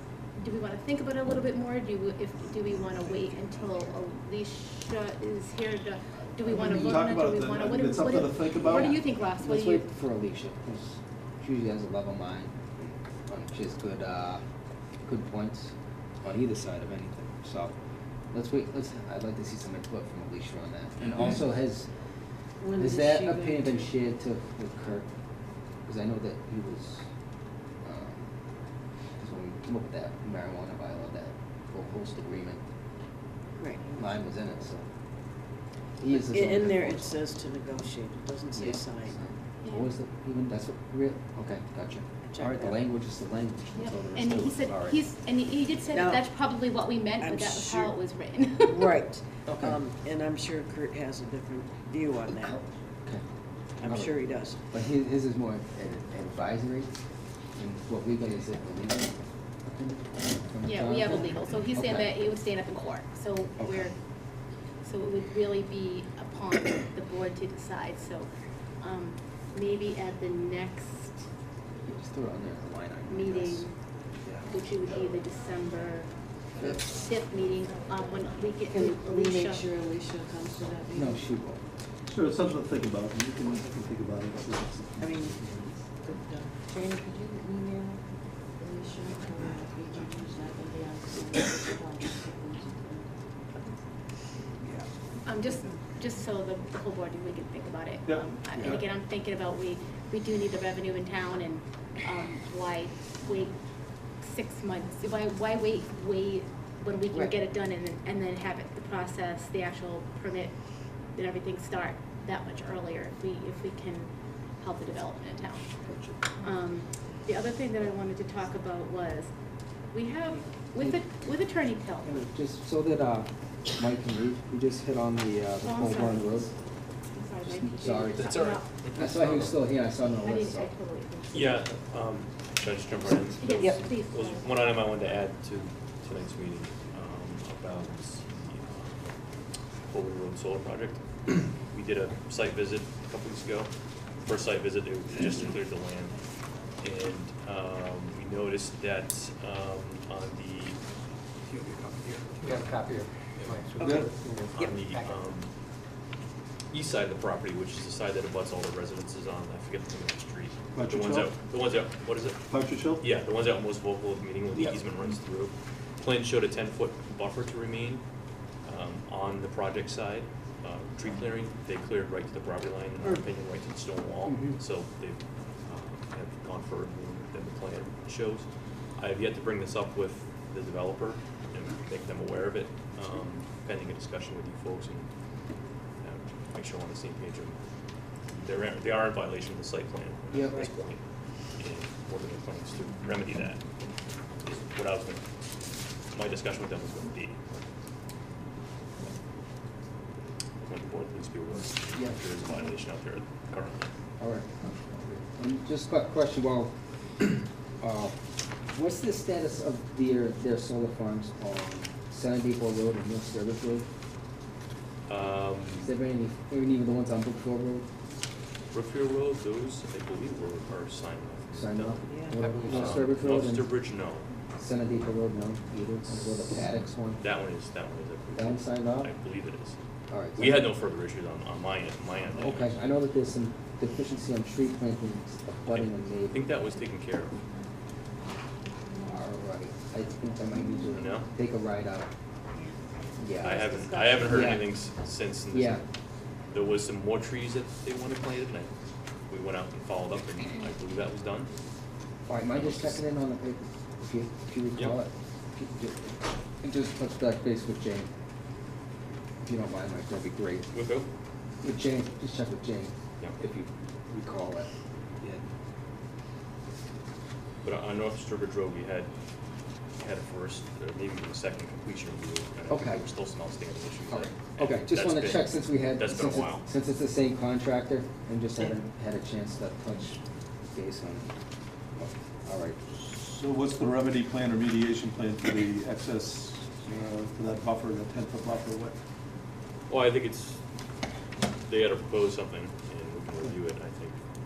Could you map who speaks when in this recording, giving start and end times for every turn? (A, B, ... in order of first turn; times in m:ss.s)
0:00.4-0:09.9 A
0:06.4-0:09.0 B
0:09.4-0:14.4 C
0:15.0-0:17.7 C
0:18.3-0:21.9 C
0:22.6-0:23.8 D
0:22.7-0:25.1 C
0:25.9-0:27.1 C
0:27.8-0:28.3 C
0:29.2-0:32.6 C
0:33.6-0:34.0 D
0:33.9-0:34.9 C
0:36.0-0:37.2 C
0:36.1-0:39.2 D
0:38.5-0:45.0 C
0:39.6-0:39.9 A
0:42.3-0:42.8 D
0:43.8-0:49.0 A
0:45.9-0:46.3 D
0:47.2-0:47.9 D
0:48.7-0:52.6 D
0:49.5-0:49.8 C
0:52.3-0:53.2 C
0:53.8-0:54.2 C
0:53.8-0:54.6 D
0:54.7-0:57.0 C
0:57.6-1:02.1 C
1:00.6-1:04.0 A
1:03.6-1:03.9 C
1:04.8-1:08.3 A
1:08.8-1:11.2 A
1:11.8-1:13.7 C
1:13.1-1:13.8 A
1:14.5-1:19.7 A
1:18.7-1:21.2 D
1:20.9-1:21.6 C
1:22.1-1:25.1 B
1:25.0-1:28.0 D
1:28.6-1:33.7 D
1:35.2-1:43.5 A
1:38.1-1:38.7 B
1:44.2-1:50.6 A
1:51.2-1:55.6 A
1:55.9-1:56.2 C
1:56.4-1:59.3 A
1:59.9-2:02.2 A
2:02.1-2:06.5 C
2:05.6-2:06.5 A
2:07.1-2:08.7 A
2:07.5-2:08.4 C
2:08.2-2:09.6 E
2:09.0-2:10.7 C
2:10.2-2:11.7 A
2:11.3-2:19.1 E
2:13.4-2:14.5 A
2:19.9-2:21.0 E
2:21.6-2:23.7 E
2:24.2-2:26.2 E
2:26.8-2:30.8 E
2:31.5-2:35.2 F
2:33.4-2:33.6 E
2:33.8-2:34.1 B
2:34.5-2:35.5 E
2:36.7-2:48.0 E
2:40.8-2:41.4 B
2:42.5-2:43.0 B
2:48.6-3:05.1 E
2:54.3-2:54.6 C
3:06.0-3:07.6 E
3:08.4-3:11.0 E
3:10.3-3:10.7 C
3:11.6-3:13.6 E
3:14.4-3:15.2 E
3:16.1-3:17.7 E
3:20.6-3:23.9 E
3:21.9-3:22.2 C
3:24.2-3:28.2 C
3:28.7-3:33.9 C
3:35.1-3:35.9 E
3:35.8-3:37.8 C
3:38.7-3:44.3 E
3:41.5-3:43.7 C
3:42.4-3:43.1 F
3:44.6-3:47.2 C
3:47.2-3:49.8 E
3:48.4-3:49.1 C
3:50.1-3:50.7 C
3:50.3-3:52.8 E
3:52.4-3:56.5 C
3:55.7-3:57.4 E
3:59.0-4:02.1 C
4:00.9-4:01.3 E
4:03.2-4:04.7 C
4:03.4-4:05.8 E
4:03.4-4:04.3 D
4:05.5-4:05.8 C
4:06.5-4:08.7 E
4:09.3-4:11.5 E
4:12.3-4:18.1 C
4:12.5-4:13.0 E
4:19.4-4:20.7 C
4:20.7-4:21.1 E
4:21.6-4:24.7 C
4:27.6-4:29.1 E
4:30.0-4:36.6 E
4:32.7-4:33.0 C
4:34.1-4:40.2 C
4:40.7-4:41.3 C
4:42.0-4:42.8 C
4:43.0-4:49.0 B
4:49.9-4:50.6 E
4:51.6-4:54.2 E